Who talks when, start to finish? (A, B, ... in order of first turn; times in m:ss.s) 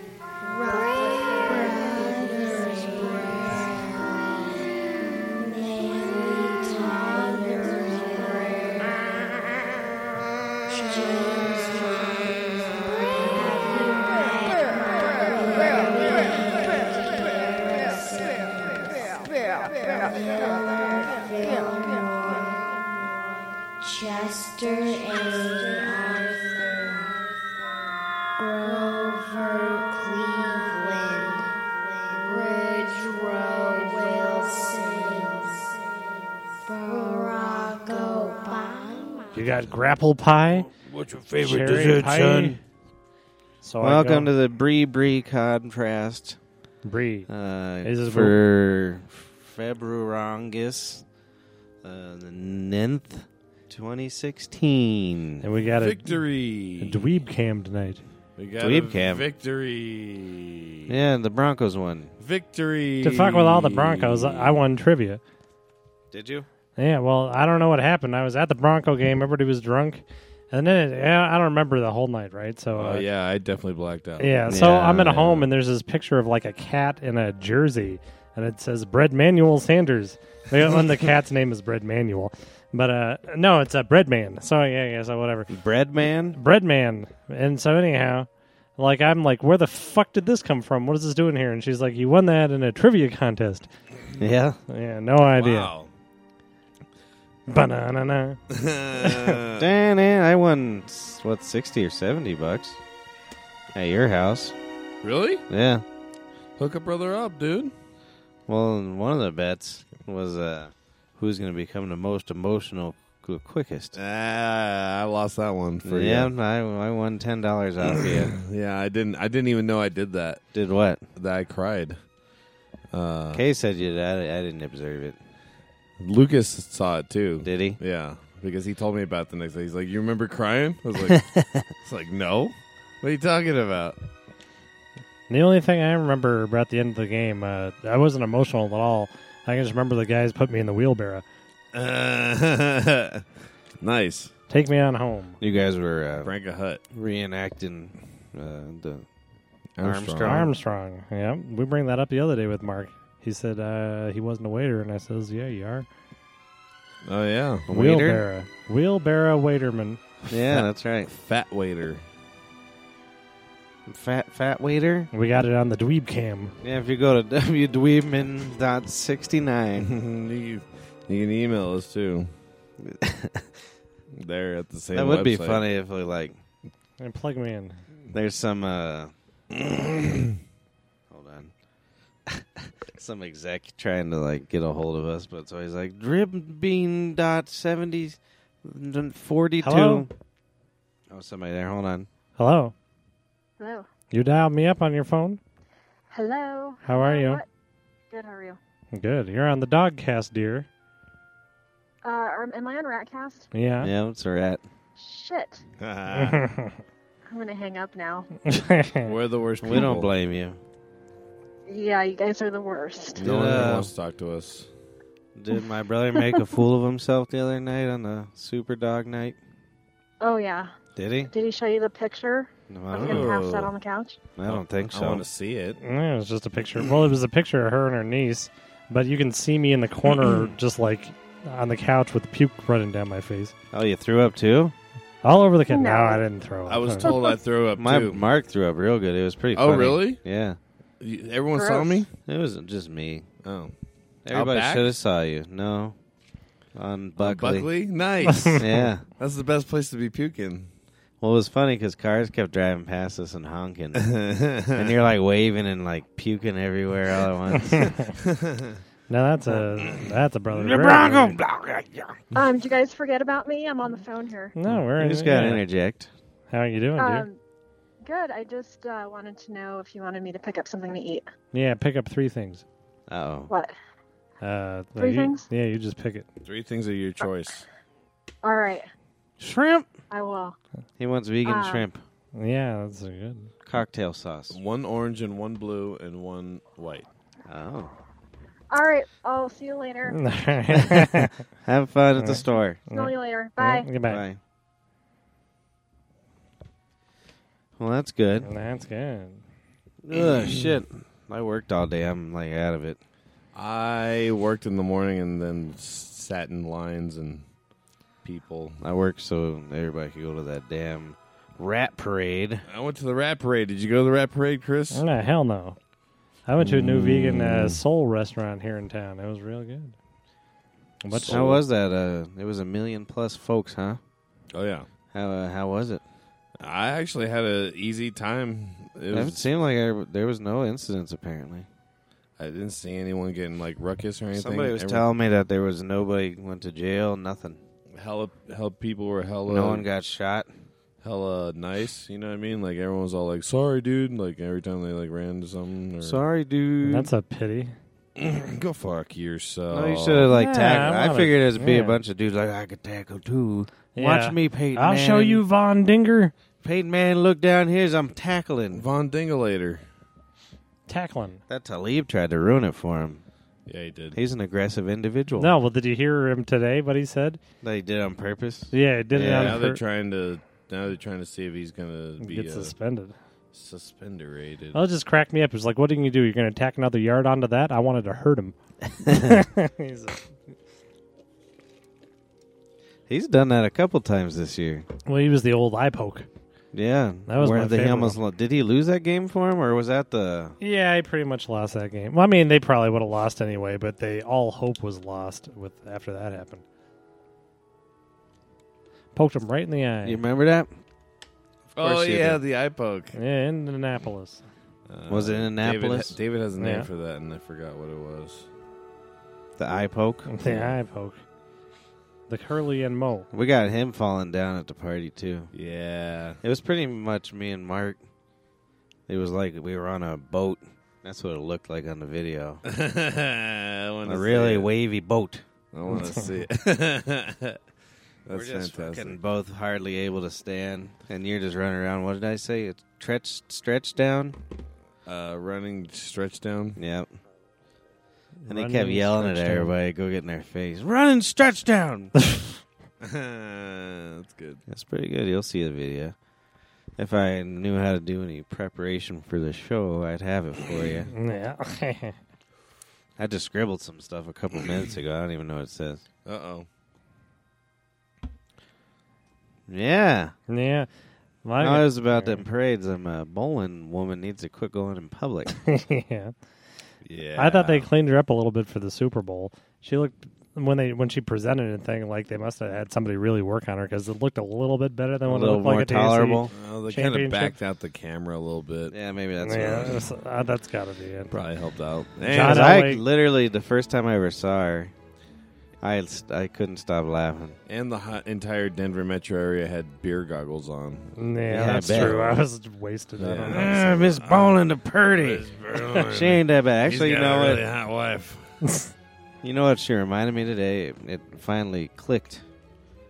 0:00.4-0:04.7 A
0:05.3-0:09.2 A
0:10.7-0:27.5 A
0:28.4-0:39.4 A
0:39.4-0:40.7 B
0:40.7-0:42.6 C
0:41.4-0:42.6 B
0:43.6-0:44.3 B
0:43.8-0:46.4 C
0:46.8-0:47.3 B
0:47.3-0:51.0 C
0:47.8-0:48.4 B
0:51.8-0:55.4 C
0:55.4-0:56.2 B
0:55.8-0:57.0 D
0:56.8-0:58.0 B
0:58.4-1:00.9 D
0:58.6-0:59.2 C
1:00.9-1:02.1 C
1:02.2-1:04.6 D
1:03.0-1:05.2 B
1:06.1-1:06.5 C
1:06.8-1:13.1 B
1:12.8-1:14.4 D
1:14.2-1:25.5 B
1:14.5-1:15.5 C
1:25.5-1:26.4 C
1:26.4-1:33.7 B
1:34.2-1:34.6 C
1:34.7-1:35.7 B
1:35.4-1:35.9 D
1:37.5-1:38.4 B
1:38.5-1:39.7 D
1:39.0-1:39.4 B
1:39.6-1:42.8 C
1:43.7-1:44.6 C
1:45.0-1:45.4 D
1:45.5-1:45.8 C
1:46.6-1:47.7 D
1:48.5-1:54.0 C
1:53.9-1:56.3 D
1:55.8-1:58.4 C
1:57.9-2:00.4 D
2:00.5-2:01.0 C
2:01.2-2:02.0 D
2:02.9-2:03.4 D
2:03.3-2:05.2 C
2:06.0-2:11.2 D
2:07.4-2:07.8 C
2:11.1-2:11.7 C
2:11.8-2:14.0 D
2:15.3-2:21.2 B
2:21.7-2:23.2 D
2:23.8-2:24.3 D
2:24.5-2:25.4 B
2:25.4-2:26.3 C
2:26.2-2:26.8 D
2:26.9-2:29.1 C
2:29.8-2:30.5 D
2:29.8-2:30.5 C
2:30.2-2:35.9 B
2:37.0-2:37.7 D
2:37.7-2:38.2 C
2:37.7-2:40.0 B
2:40.3-2:41.1 C
2:40.3-2:42.0 D
2:43.9-2:45.1 C
2:45.1-2:46.5 B
2:46.6-2:49.9 C
2:49.8-2:52.3 D
2:52.8-2:53.5 C
2:54.1-2:55.6 D
2:54.9-2:56.4 C
2:57.0-2:57.8 B
2:58.1-2:59.1 C
2:59.7-3:00.2 D
3:01.1-3:01.5 C
3:02.3-3:10.1 C
3:09.6-3:10.1 B
3:11.1-3:12.1 C
3:12.4-3:12.7 B
3:13.6-3:13.9 E
3:14.1-3:15.4 B
3:16.1-3:17.5 E
3:16.8-3:17.4 B
3:18.1-3:18.6 E
3:18.9-3:20.7 B
3:22.0-3:23.5 E
3:23.5-3:23.9 B
3:23.8-3:24.6 C
3:25.0-3:25.6 E
3:25.8-3:26.4 D
3:26.1-3:26.8 B
3:27.3-3:28.3 E
3:28.5-3:29.1 B
3:29.0-3:30.1 D
3:29.6-3:30.6 C
3:31.7-3:33.2 E
3:33.2-3:34.7 D
3:33.2-3:33.9 C
3:35.4-3:39.4 C
3:40.2-3:40.7 E
3:41.0-3:41.3 C
3:41.3-3:44.3 E
3:42.7-3:43.3 C
3:43.0-3:43.7 D
3:44.4-3:45.2 C
3:44.5-3:45.8 D
3:45.8-3:53.5 B
3:53.7-3:54.8 C
3:55.2-3:57.1 B
3:55.7-3:56.2 E
3:56.7-3:58.2 D
3:57.0-3:57.4 E
3:57.8-4:00.6 C
3:59.5-4:00.2 D
4:01.0-4:02.1 D
4:01.5-4:02.1 E
4:02.2-4:03.3 C
4:03.4-4:03.7 D
4:04.3-4:06.0 C
4:04.3-4:04.9 D
4:06.8-4:07.7 C
4:07.2-4:10.7 D
4:08.3-4:08.6 B
4:08.6-4:09.1 C
4:11.2-4:14.1 C
4:14.0-4:14.9 D
4:14.7-4:17.9 C
4:17.7-4:18.0 B
4:18.2-4:18.8 D
4:19.1-4:21.4 B
4:20.5-4:22.2 C
4:22.3-4:24.6 E
4:24.6-4:25.6 B
4:24.6-4:26.1 C
4:26.5-4:27.3 B
4:27.0-4:27.4 E
4:28.0-4:31.2 E
4:31.5-4:32.6 B
4:33.1-4:33.5 C
4:33.5-4:33.7 E
4:34.4-4:36.3 B
4:35.0-4:35.5 E
4:36.4-4:37.7 D
4:38.4-4:38.9 E
4:39.4-4:39.9 C
4:40.1-4:40.6 E
4:41.0-4:42.0 C
4:41.4-4:41.9 E
4:42.3-4:43.5 B
4:43.6-4:44.6 C
4:44.5-4:47.1 D
4:47.5-4:47.9 C
4:48.7-4:50.2 E
4:50.1-4:51.4 B
4:51.6-4:52.8 C
4:52.2-4:54.2 B
4:52.9-4:53.9 E
4:54.0-4:54.4 C
4:57.8-4:58.5 C
4:58.4-4:59.4 B
5:00.0-5:03.0 C
5:03.5-5:07.5 D
5:08.2-5:08.8 D
5:08.8-5:12.6 C
5:12.7-5:15.0 D
5:14.9-5:15.8 B
5:16.5-5:20.0 B
5:16.6-5:17.8 D
5:21.0-5:21.6 B
5:21.1-5:21.6 D
5:21.3-5:24.0 C
5:24.5-5:24.9 D
5:25.1-5:26.0 C
5:26.6-5:29.5 D
5:29.1-5:31.7 C
5:32.4-5:35.0 D
5:34.3-5:37.6 C
5:38.0-5:39.9 D
5:39.5-5:40.5 C
5:41.0-5:46.2 D
5:46.0-5:47.1 C
5:46.9-5:47.7 B
5:48.2-5:50.3 D
5:49.7-5:55.4 C
5:50.3-5:52.0 B
5:54.0-5:56.3 B
5:56.6-5:58.9 C
5:58.7-5:59.8 D
6:00.9-6:01.4 B
6:01.5-6:03.2 C
6:03.7-6:04.2 D
6:04.1-6:05.5 C
6:05.4-6:07.4 B
6:07.6-6:09.6 C
6:08.7-6:09.8 B
6:09.2-6:12.7 D
6:12.2-6:13.2 B
6:13.5-6:14.8 D
6:14.7-6:20.2 B
6:19.1-6:19.3 C
6:23.1-6:24.9 C
6:25.1-6:26.3 B
6:26.7-6:30.6 C
6:27.3-6:28.2 B
6:30.6-6:36.6 B
6:39.2-6:40.2 B
6:40.0-6:40.7 C
6:41.8-6:42.4 C
6:41.8-6:43.2 D
6:43.1-6:44.4 B
6:44.9-6:48.5 D
6:45.1-6:46.2 C
6:46.6-6:46.9 B
6:49.6-6:50.4 C
6:50.3-6:51.2 B
6:50.4-6:50.7 D
6:52.3-6:53.3 B
6:53.3-6:55.5 C
6:55.5-6:56.4 D
6:56.4-6:58.0 C
6:59.1-7:02.6 C
7:02.6-7:04.7 D
7:04.1-7:05.4 C
7:05.7-7:07.6 D
7:08.3-7:09.2 D
7:08.3-7:14.4 C
7:15.1-7:16.8 D
7:16.8-7:17.1 C
7:18.4-7:19.7 B
7:18.5-7:22.2 C
7:23.0-7:24.6 D
7:24.7-7:26.2 C
7:27.0-7:31.1 C
7:31.1-7:32.2 B
7:33.2-7:36.0 C
7:36.2-7:36.7 D
7:39.7-7:40.4 C
7:40.5-7:40.9 B
7:41.4-7:42.4 B
7:41.6-7:45.6 C
7:45.6-7:46.3 B
7:47.0-7:47.9 D
7:47.4-7:57.6 B
7:55.2-7:56.5 C
7:56.5-7:59.0 D
7:58.9-8:00.0 C
7:59.4-8:01.3 B
7:59.6-8:00.0 D
8:01.3-8:02.8 D
8:02.3-8:03.0 B
8:02.3-8:04.9 C
8:05.8-8:07.6 C
8:07.7-8:11.1 D
8:11.2-8:14.0 B
8:11.5-8:12.3 C
8:11.7-8:12.4 D
8:13.2-8:18.6 D
8:13.5-8:17.7 C
8:19.4-8:22.4 C